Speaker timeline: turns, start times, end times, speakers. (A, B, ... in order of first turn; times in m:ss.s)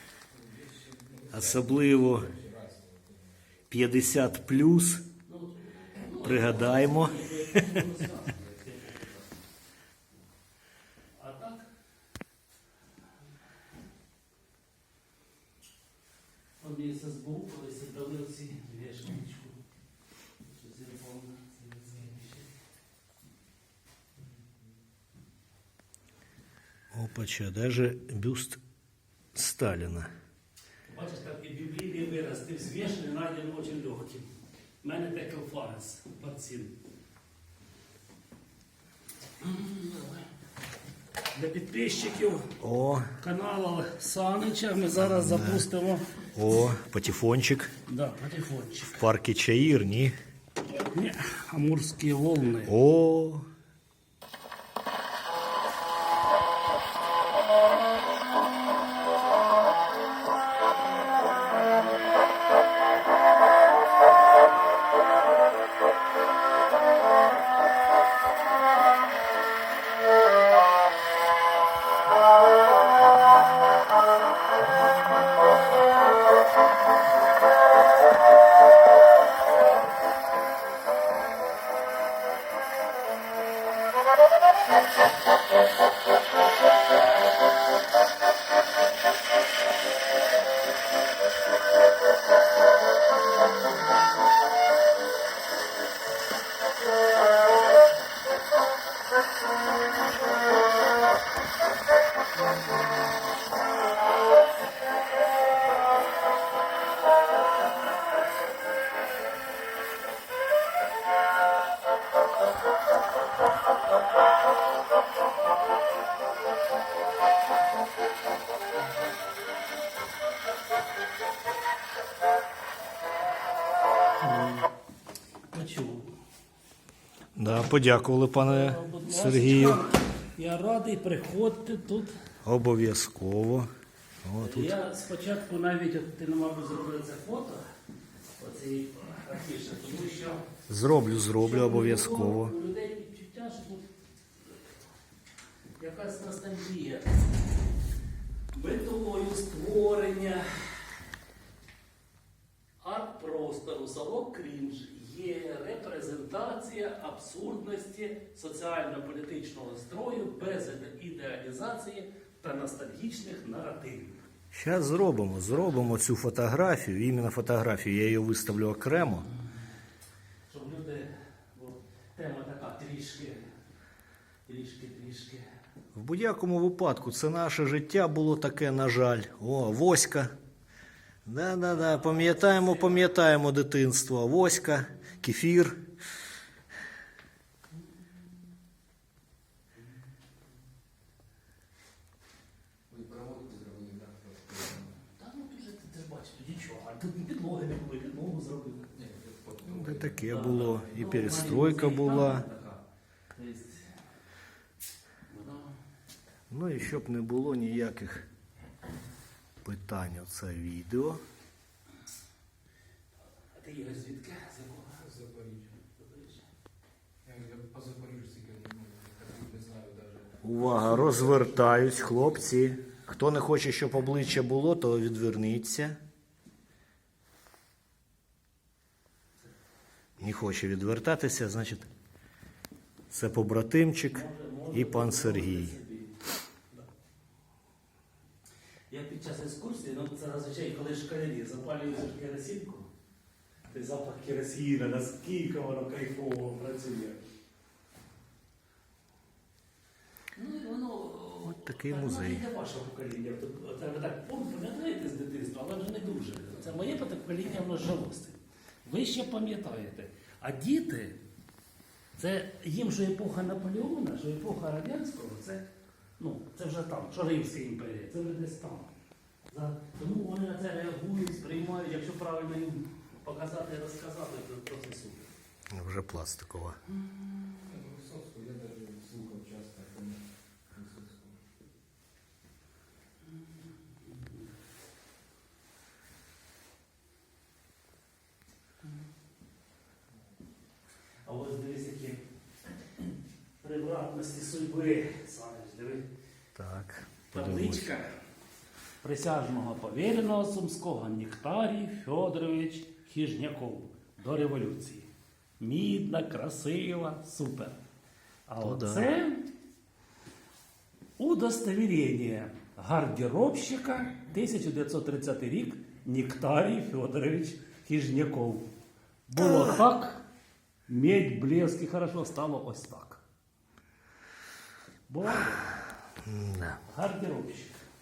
0:00.3-0:03.4 A
0:01.3-0:02.3 B
0:03.7-0:05.0 B
0:05.3-0:09.3 C
0:06.2-0:07.8 B
0:11.2-0:11.7 C
0:16.6-0:19.6 C
0:20.4-0:22.5 C
0:26.9-0:28.6 B
0:29.3-0:30.1 B
0:30.9-0:34.3 C
0:34.8-0:36.8 C
0:39.4-0:40.3 C
0:41.3-0:42.6 C
0:42.6-0:43.1 B
0:43.2-0:46.1 C
0:45.0-0:45.7 B
0:46.4-0:47.7 B
0:47.9-0:49.1 C
0:49.0-0:50.2 B
0:50.9-0:52.8 C
0:52.6-0:53.5 B
2:04.2-2:04.7 C
2:05.5-2:06.1 C
2:07.4-2:09.9 B
2:08.3-2:12.1 C
2:12.4-2:13.7 B
2:14.2-2:14.7 B
2:14.4-2:17.6 C
2:18.4-2:20.4 C
2:20.7-2:22.5 B
2:21.4-2:23.9 C
2:25.8-2:27.3 C
2:28.5-2:31.0 C
2:32.8-2:44.2 C
2:44.5-2:49.3 B
2:50.5-2:53.4 C
2:54.5-2:55.4 C
2:56.0-3:00.3 B
3:01.2-3:05.8 B
3:01.8-3:03.1 C
3:12.9-3:15.0 A
3:15.2-3:18.9 C
3:18.9-3:20.2 A
3:19.7-3:22.5 B
3:20.2-3:22.8 C
3:23.4-3:24.0 C
3:25.3-3:25.7 C
3:26.5-3:28.3 B
3:29.6-3:31.2 B
3:33.5-3:35.0 C
3:35.0-3:35.7 A
3:36.0-3:36.4 C
3:37.2-3:40.9 A
3:40.4-3:46.0 B
3:50.2-3:51.9 B
3:53.1-3:55.8 B
3:54.1-3:56.1 C
3:58.9-4:02.9 C
4:03.7-4:07.2 C
4:10.4-4:21.2 C
4:11.5-4:12.5 B
4:22.2-4:25.6 C
4:26.2-4:28.9 C
4:29.5-4:35.3 C
4:35.7-4:36.8 B
4:37.6-4:40.2 A
4:40.7-4:41.4 A
4:51.2-4:52.2 C
4:53.6-4:56.0 C
4:56.6-4:57.9 B
4:57.3-4:58.1 C
4:59.0-5:05.1 C
5:05.6-5:07.8 C
5:08.5-5:09.4 C
5:08.6-5:09.1 B
5:11.2-5:18.7 C
5:19.3-5:20.2 C
5:20.9-5:23.2 C
5:25.1-5:25.8 C
5:26.2-5:26.8 B
5:26.8-5:27.8 C